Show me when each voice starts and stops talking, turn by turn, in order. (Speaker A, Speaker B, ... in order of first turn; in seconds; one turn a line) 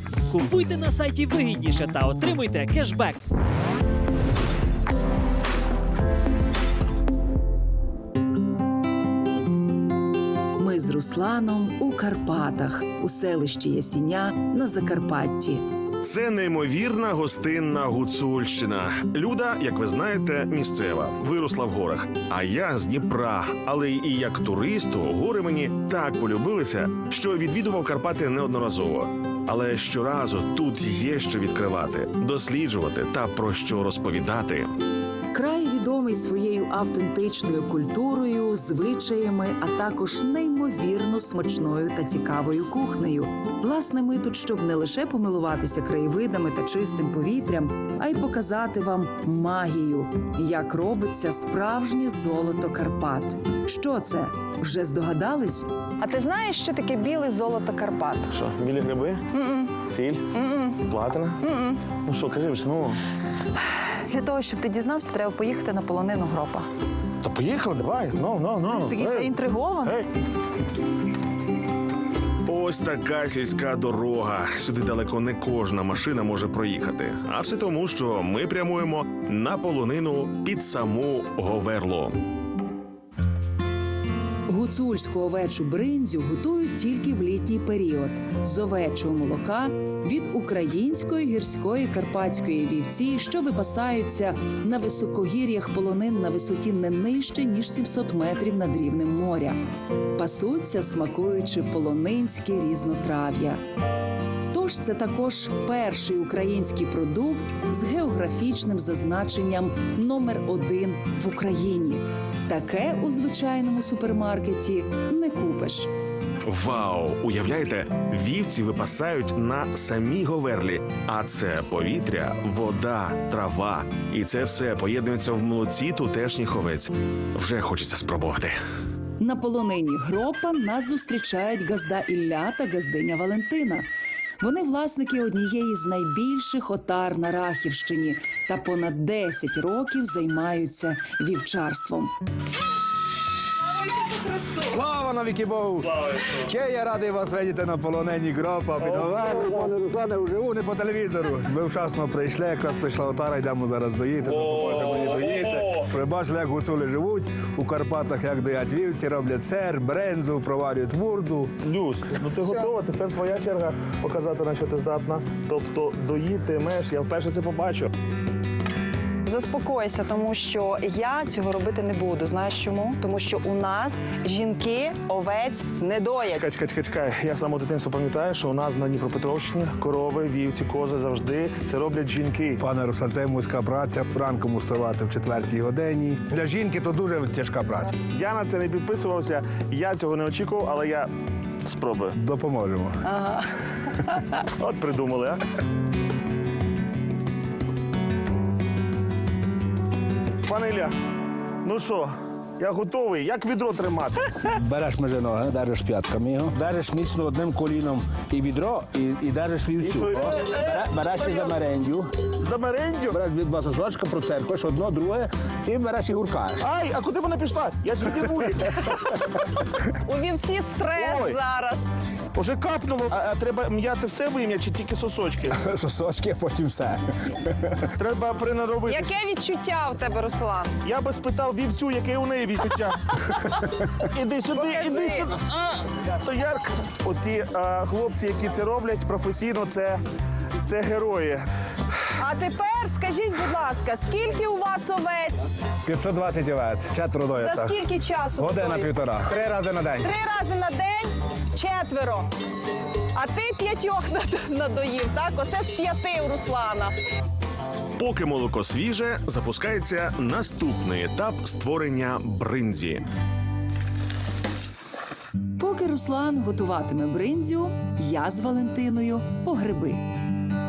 Speaker A: 0.3-3.2
Speaker B: 10.6-15.6
Speaker C: 16.0-34.7
Speaker B: 35.3-55.7
Speaker D: 56.0-58.3
Speaker E: 58.3-59.2
Speaker D: 59.3-60.8
Speaker E: 59.8-60.3
Speaker E: 61.0-61.4
Speaker D: 61.4-61.9
Speaker E: 62.0-63.0
Speaker D: 64.0-66.7
Speaker E: 67.2-70.1
Speaker D: 68.6-70.0
Speaker C: 72.5-82.2
Speaker B: 84.5-99.6
Speaker B: 100.1-103.6
Speaker B: 104.5-115.9
Speaker C: 116.5-128.6
Speaker B: 129.2-133.9
Speaker B: 134.4-142.1
Speaker F: 144.5-161.5
Speaker E: 148.8-149.3
Speaker E: 154.3-155.8
Speaker E: 161.6-167.9
Speaker D: 162.4-162.7
Speaker D: 169.2-176.5
Speaker E: 176.3-182.6
Speaker F: 182.6-187.9
Speaker E: 188.1-191.1
Speaker C: 189.8-190.4
Speaker E: 191.7-192.1
Speaker F: 192.2-193.0
Speaker D: 193.1-193.5
Speaker D: 194.1-194.4
Speaker E: 194.6-195.4
Speaker E: 200.5-200.9
Speaker E: 201.6-204.3
Speaker F: 204.4-212.3
Speaker E: 209.8-210.8
Speaker E: 212.4-213.2
Speaker F: 213.1-216.7
Speaker E: 216.6-219.2
Speaker D: 220.1-221.9
Speaker E: 220.9-221.4
Speaker E: 222.3-225.6
Speaker F: 225.5-227.8
Speaker E: 228.0-229.2
Speaker D: 228.9-230.8
Speaker E: 230.8-233.1
Speaker E: 234.1-240.0
Speaker D: 234.5-235.3
Speaker E: 240.6-241.4
Speaker D: 242.2-245.5
Speaker F: 245.8-247.8
Speaker D: 247.4-248.9
Speaker F: 248.4-250.1
Speaker D: 250.0-252.3
Speaker D: 253.2-256.9
Speaker C: 258.0-263.1
Speaker B: 265.6-270.0